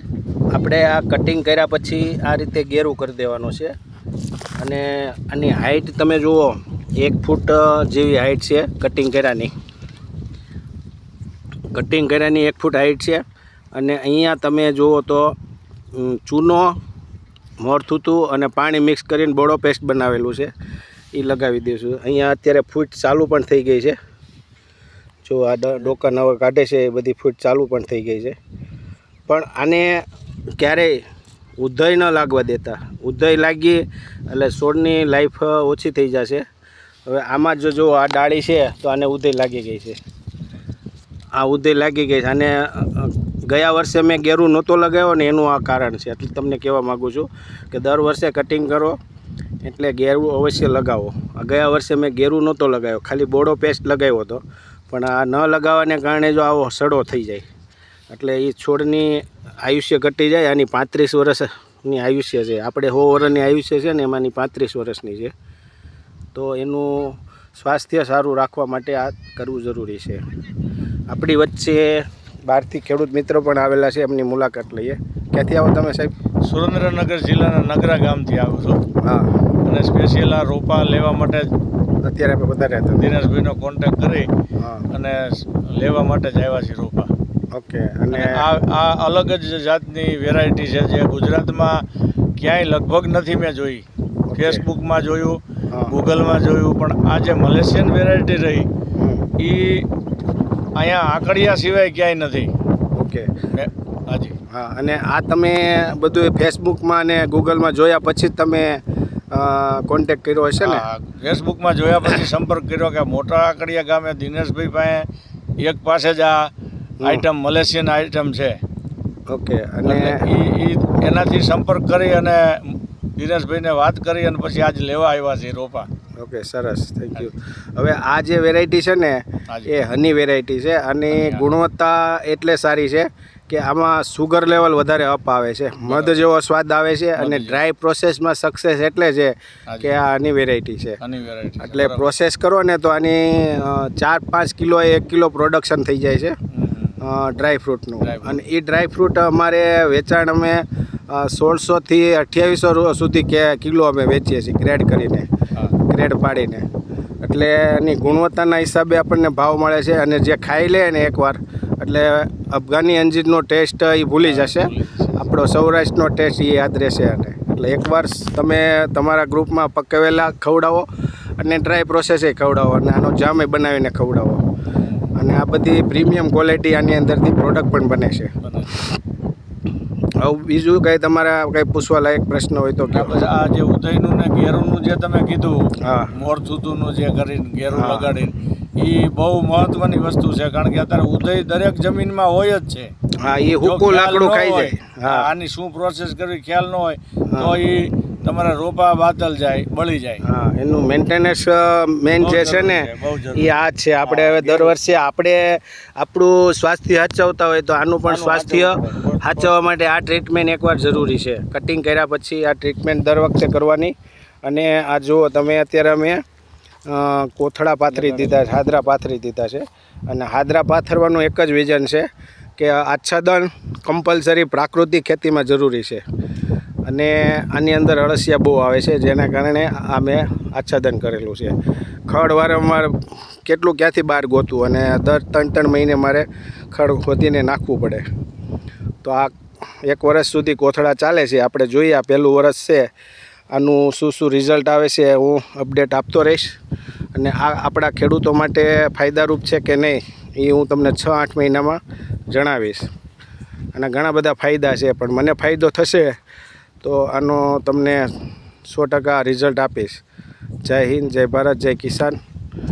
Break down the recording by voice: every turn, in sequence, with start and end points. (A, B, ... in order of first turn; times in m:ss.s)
0:00.5-0:03.7 A
0:04.6-0:09.5 A
0:11.7-0:15.4 A
0:15.9-0:16.8 A
0:17.6-0:20.5 A
0:21.1-0:24.0 A
0:25.2-0:28.4 A
0:29.3-0:30.0 A
0:30.6-0:31.0 A
0:31.6-0:36.4 A
0:37.1-0:40.0 A
0:41.4-0:49.0 A
0:49.6-0:57.5 A
0:58.1-1:05.3 A
1:06.3-1:10.2 A
1:11.1-1:16.1 A
1:16.4-1:18.8 B
1:19.0-1:19.4 A
1:19.6-1:21.5 B
1:22.0-1:23.1 A
1:23.0-1:24.3 B
1:24.6-1:24.8 A
1:24.9-1:27.1 B
1:27.5-1:28.4 A
1:28.1-1:31.8 B
1:32.4-1:33.8 B
1:34.3-1:34.6 A
1:34.4-1:38.7 B
1:39.0-1:39.3 A
1:39.4-1:39.9 B
1:40.8-1:42.5 B
1:42.9-1:43.4 A
1:43.5-1:44.4 B
1:44.5-1:50.8 A
1:50.6-1:55.1 B
1:55.6-1:56.5 B
1:57.0-1:58.6 B
1:59.3-2:00.2 A
1:59.8-2:05.9 B
2:06.2-2:21.0 A
2:09.5-2:09.8 B
2:11.1-2:11.5 B
2:15.9-2:16.2 B
2:17.2-2:17.6 B
2:19.7-2:20.0 B
2:21.0-2:22.1 B
2:21.6-2:26.4 A
2:26.5-2:27.0 B
2:27.0-2:36.7 A
2:28.0-2:28.4 B
2:37.2-2:50.9 A
2:44.2-2:45.2 B
2:51.4-2:54.4 A
2:54.8-2:55.1 B
2:55.2-2:58.3 A
2:58.4-2:58.8 B
3:00.2-3:03.3 A
3:02.9-3:12.9 B
3:05.8-3:06.1 A
3:07.7-3:08.1 A
3:13.2-3:15.3 A
3:13.6-3:20.2 B
3:17.3-3:17.6 A
3:20.2-3:36.2 A
3:22.2-3:24.8 B
3:28.0-3:29.5 B
3:36.9-3:46.0 A
3:37.9-3:38.5 B
3:46.8-3:51.6 A
3:52.1-3:58.0 A
3:59.0-4:02.9 A
4:03.5-4:06.6 A
4:07.2-4:12.9 A
4:13.7-4:16.2 A
4:16.8-4:18.1 A
4:18.7-4:20.0 A
4:20.6-4:22.2 A